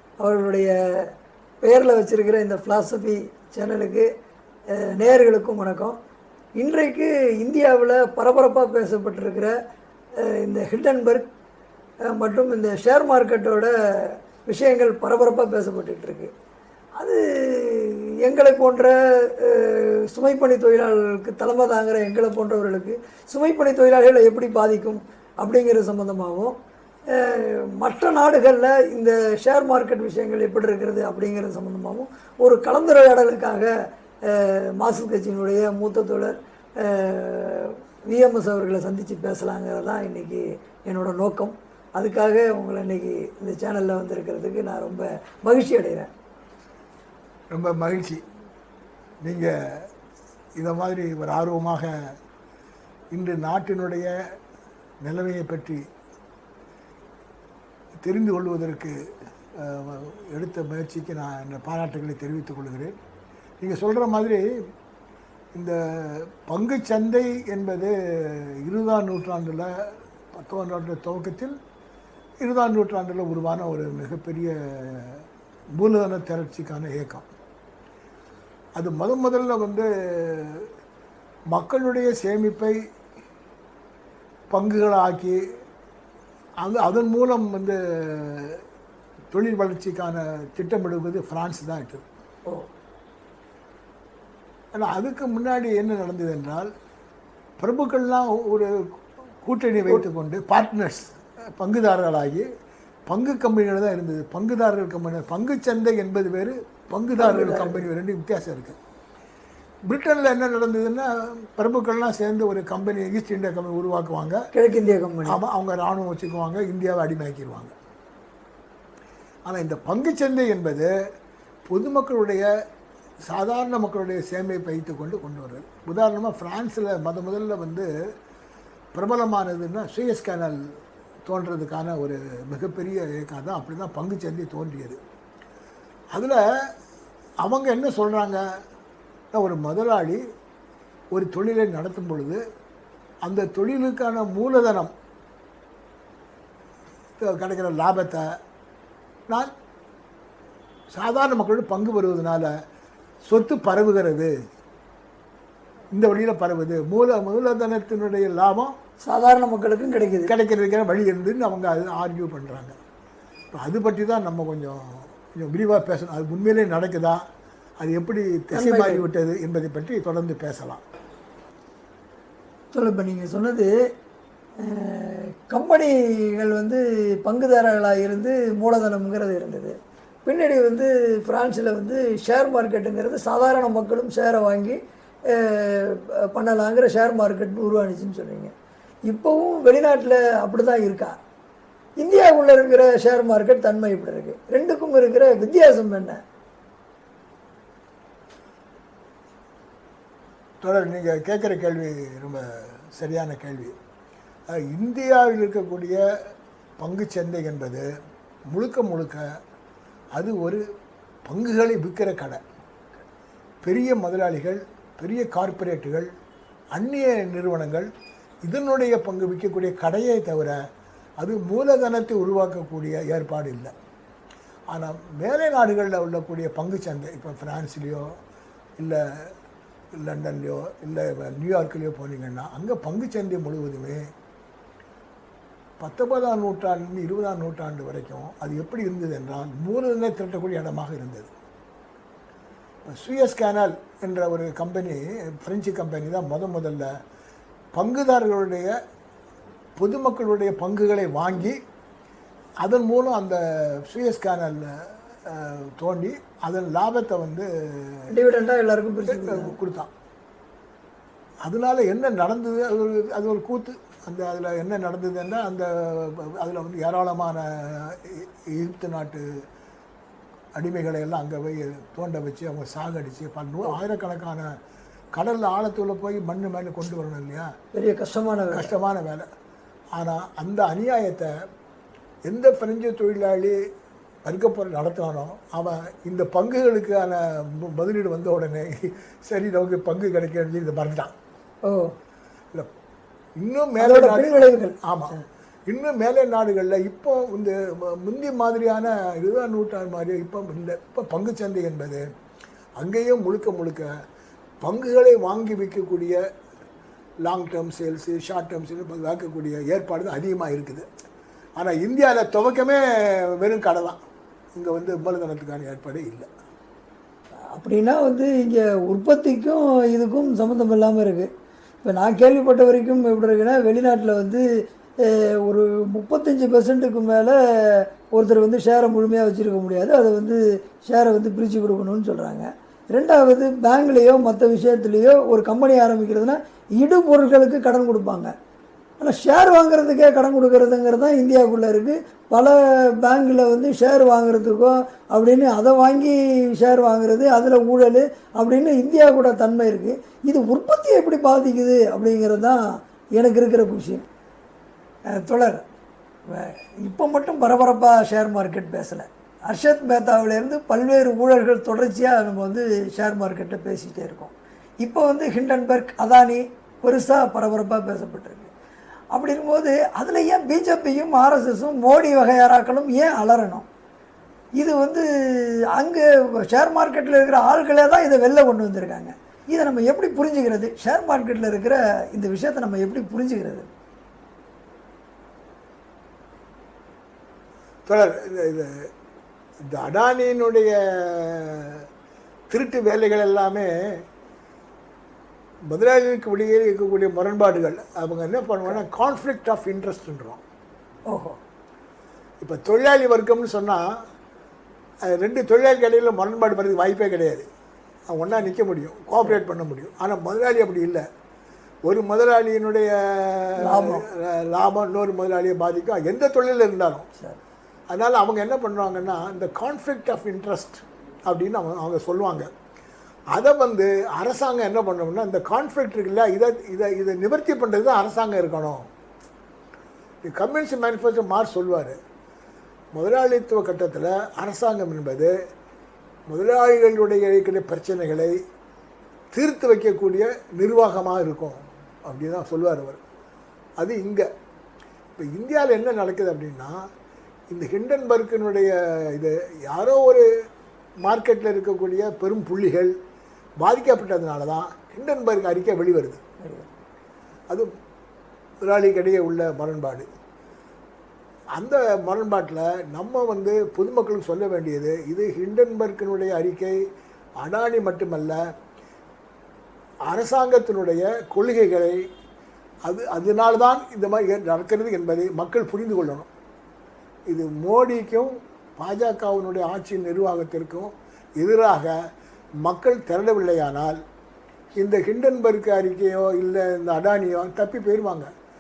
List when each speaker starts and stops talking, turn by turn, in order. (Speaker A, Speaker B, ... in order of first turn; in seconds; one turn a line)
Speaker A: 0.2-1.1
Speaker A: 1.6-4.1
Speaker A: 4.7-6.0
Speaker A: 6.6-9.5
Speaker A: 10.2-11.3
Speaker A: 12.1-16.3
Speaker A: 17.0-26.6
Speaker A: 27.1-33.7
Speaker A: 34.3-46.1
Speaker B: 47.5-48.2
Speaker B: 49.2-49.9
Speaker B: 50.6-52.1
Speaker B: 53.1-54.1
Speaker B: 55.0-55.8
Speaker B: 58.0-59.0
Speaker B: 59.6-63.0
Speaker B: 63.6-64.5
Speaker B: 65.5-71.6
Speaker B: 72.4-75.2
Speaker B: 75.8-77.3
Speaker B: 78.8-80.7
Speaker B: 81.5-82.8
Speaker B: 84.5-85.4
Speaker B: 86.6-88.6
Speaker B: 89.3-92.0
Speaker B: 94.7-96.7
Speaker B: 97.6-98.9
Speaker B: 99.4-102.5
Speaker B: 103.1-108.8
Speaker A: 107.2-107.8
Speaker B: 109.9-114.4
Speaker A: 114.5-115.4
Speaker B: 115.3-117.7
Speaker B: 119.5-120.9
Speaker B: 121.7-122.5
Speaker B: 123.3-127.9
Speaker B: 128.9-130.6
Speaker B: 131.3-135.0
Speaker B: 136.1-136.4
Speaker B: 137.4-138.4
Speaker B: 139.3-140.2
Speaker B: 141.1-142.4
Speaker B: 143.2-144.9
Speaker B: 147.2-148.3
Speaker B: 150.9-152.5
Speaker B: 153.3-154.3
Speaker B: 155.9-158.7
Speaker A: 159.1-160.3
Speaker B: 160.2-162.8
Speaker B: 163.5-167.2
Speaker B: 167.8-170.8
Speaker A: 168.5-169.1
Speaker A: 172.7-173.7
Speaker A: 174.6-179.8
Speaker A: 180.3-188.5
Speaker A: 189.1-191.2
Speaker A: 192.0-196.2
Speaker B: 200.6-202.4
Speaker B: 202.9-203.8
Speaker B: 204.5-206.0
Speaker B: 206.8-207.9
Speaker B: 208.5-209.2
Speaker B: 210.2-210.6
Speaker B: 211.3-212.4
Speaker B: 213.6-216.1
Speaker B: 216.8-217.9
Speaker B: 218.5-220.6
Speaker B: 221.2-223.7
Speaker B: 224.7-228.1
Speaker B: 228.8-229.3
Speaker B: 230.0-234.0
Speaker B: 235.8-241.3
Speaker B: 242.8-246.9
Speaker B: 247.7-248.7
Speaker B: 249.8-251.6
Speaker B: 252.6-254.7
Speaker B: 255.3-258.1
Speaker A: 258.1-259.5
Speaker B: 259.1-259.9
Speaker B: 261.4-269.2
Speaker B: 270.6-274.5
Speaker B: 275.1-277.5
Speaker A: 277.7-278.7
Speaker B: 278.5-279.3
Speaker B: 280.0-281.3
Speaker B: 282.3-283.6
Speaker B: 284.2-288.7
Speaker B: 289.3-291.1
Speaker A: 291.6-291.9
Speaker B: 293.4-294.3
Speaker A: 293.8-294.8
Speaker B: 294.9-295.2
Speaker B: 295.7-302.0
Speaker B: 302.8-303.9
Speaker B: 304.6-306.2
Speaker B: 307.2-310.9
Speaker B: 311.6-314.0
Speaker B: 314.6-316.3
Speaker A: 317.6-321.3
Speaker A: 321.8-324.5
Speaker A: 325.0-338.3
Speaker A: 339.0-352.6
Speaker A: 353.2-354.1
Speaker A: 355.1-355.6
Speaker A: 356.3-368.5
Speaker A: 369.1-373.7
Speaker A: 374.6-383.7
Speaker B: 387.9-388.7
Speaker B: 389.7-391.9
Speaker B: 392.5-393.7
Speaker B: 395.7-400.4
Speaker A: 401.1-401.4
Speaker B: 402.4-403.9
Speaker B: 405.1-407.5
Speaker B: 408.1-411.0
Speaker B: 411.9-417.1
Speaker A: 413.6-414.1
Speaker B: 417.9-422.5
Speaker B: 423.3-428.9
Speaker B: 430.2-432.0
Speaker B: 432.9-435.3
Speaker B: 436.3-438.4
Speaker B: 439.3-443.0
Speaker B: 443.8-444.3
Speaker B: 445.2-446.8
Speaker B: 447.5-450.2
Speaker B: 451.0-452.9
Speaker B: 453.6-456.2
Speaker A: 456.4-456.7
Speaker B: 458.6-460.1
Speaker B: 461.6-466.8
Speaker B: 467.4-468.4
Speaker B: 470.1-472.0
Speaker B: 472.9-476.3
Speaker B: 477.3-481.9
Speaker B: 482.6-484.0
Speaker B: 484.8-488.3